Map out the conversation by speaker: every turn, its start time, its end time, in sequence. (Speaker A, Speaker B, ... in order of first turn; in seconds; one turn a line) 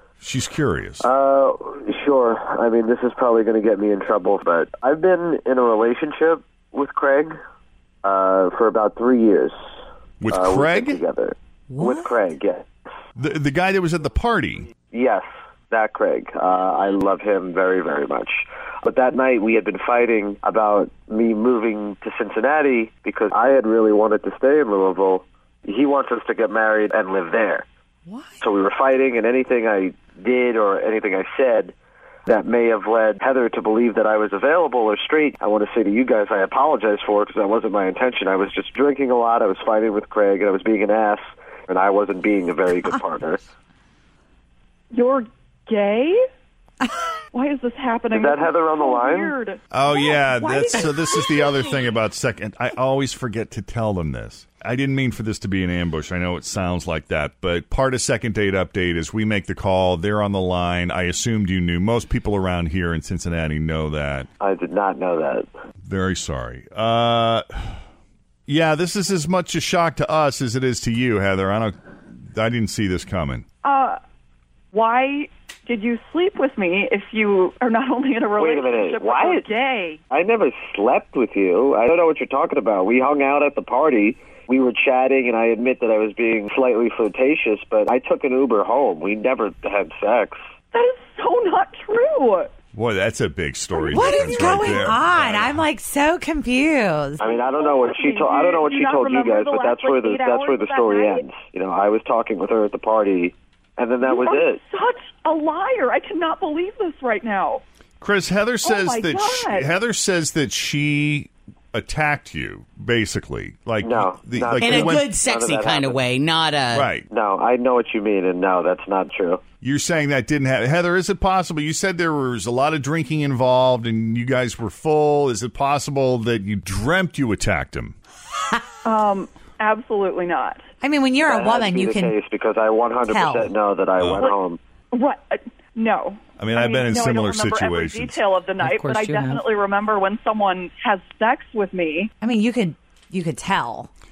Speaker A: 0.2-1.0
Speaker B: 1.0-7.4
Speaker B: 8.0-9.5
Speaker A: 10.2-11.0
Speaker B: 10.3-12.7
Speaker C: 11.7-12.1
Speaker A: 13.2-14.7
Speaker B: 14.9-27.6
Speaker C: 28.1-28.4
Speaker B: 28.4-31.7
Speaker B: 32.3-43.4
Speaker D: 44.9-46.2
Speaker D: 47.3-51.5
Speaker B: 48.1-49.4
Speaker A: 49.7-64.3
Speaker B: 64.4-65.5
Speaker A: 65.8-67.5
Speaker A: 68.5-71.8
Speaker A: 72.3-73.5
Speaker D: 73.6-74.0
Speaker D: 74.7-80.0
Speaker B: 78.4-79.5
Speaker B: 80.1-90.4
Speaker D: 90.7-92.5
Speaker A: 92.8-95.6
Speaker C: 93.8-97.2
Speaker D: 93.9-94.2
Speaker B: 97.2-104.6
Speaker D: 97.2-101.3
Speaker D: 104.0-107.6
Speaker A: 108.0-115.1
Speaker D: 108.7-109.7
Speaker B: 113.8-116.0
Speaker E: 114.6-116.9
Speaker A: 116.7-117.1
Speaker B: 117.1-119.4
Speaker A: 119.6-128.0
Speaker D: 128.8-130.6
Speaker C: 130.8-132.2
Speaker B: 131.2-134.6
Speaker C: 133.1-133.6
Speaker A: 134.0-134.3
Speaker D: 134.9-142.1
Speaker A: 136.4-138.2
Speaker E: 138.6-139.4
Speaker C: 142.2-143.9